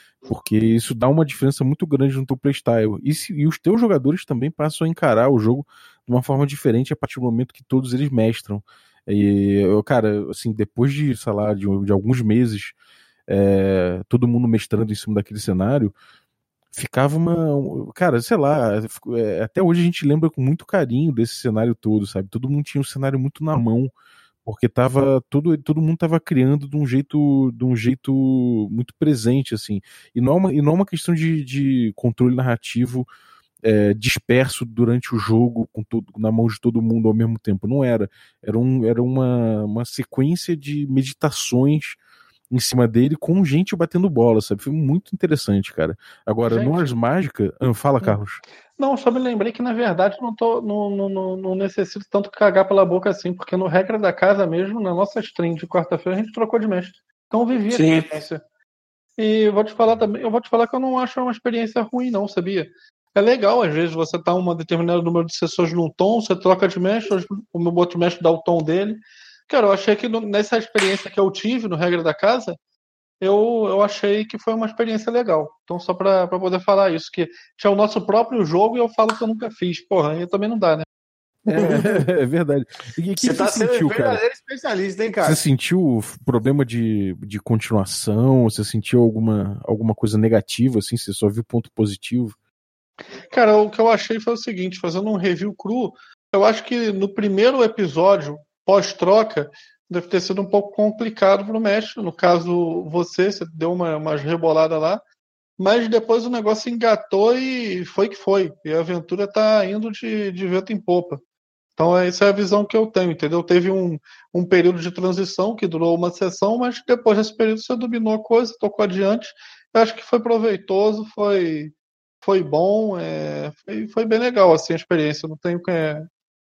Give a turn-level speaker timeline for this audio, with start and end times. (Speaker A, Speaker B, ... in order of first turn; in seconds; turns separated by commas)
Speaker A: 0.2-12.7, Speaker A: 13.3-15.9, Speaker A: 16.7-23.9, Speaker A: 24.4-33.1, Speaker A: 33.6-42.0, Speaker A: 42.5-48.4, Speaker B: 46.4-47.0, Speaker B: 48.8-58.4, Speaker C: 57.7-58.1, Speaker B: 59.2-72.6, Speaker B: 73.2-80.8, Speaker C: 81.5-82.0, Speaker A: 81.5-84.2, Speaker C: 83.2-85.4, Speaker A: 85.2-92.3, Speaker B: 93.3-105.0, Speaker B: 105.6-111.2, Speaker B: 111.8-126.1